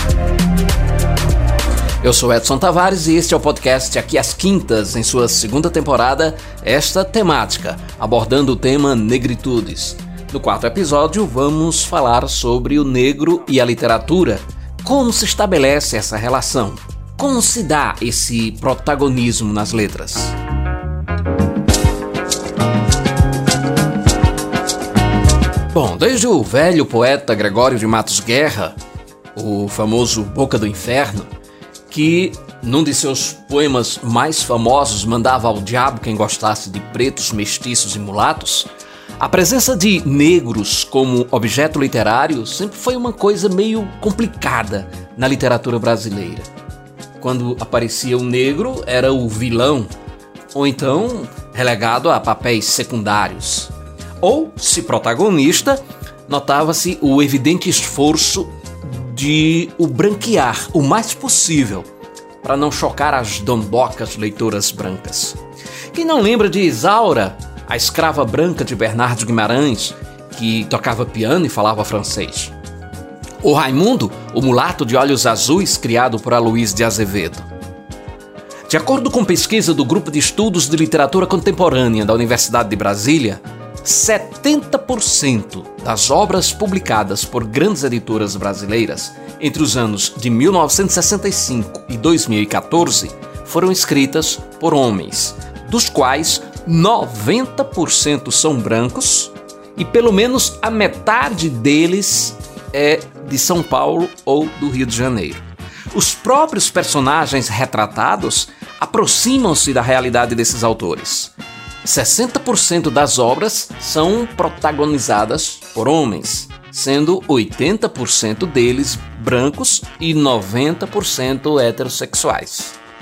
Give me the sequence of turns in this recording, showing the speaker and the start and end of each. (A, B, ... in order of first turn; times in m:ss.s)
0:02.0-0:20.4 A
0:25.7-0:28.8 A
0:29.4-0:31.3 A
0:31.9-0:46.5 A
0:47.2-0:49.9 A
0:50.5-1:01.9 A
1:02.4-1:05.4 A
1:05.9-1:12.5 A
1:13.4-1:17.4 A
1:18.7-1:51.3 A
1:51.8-2:02.8 A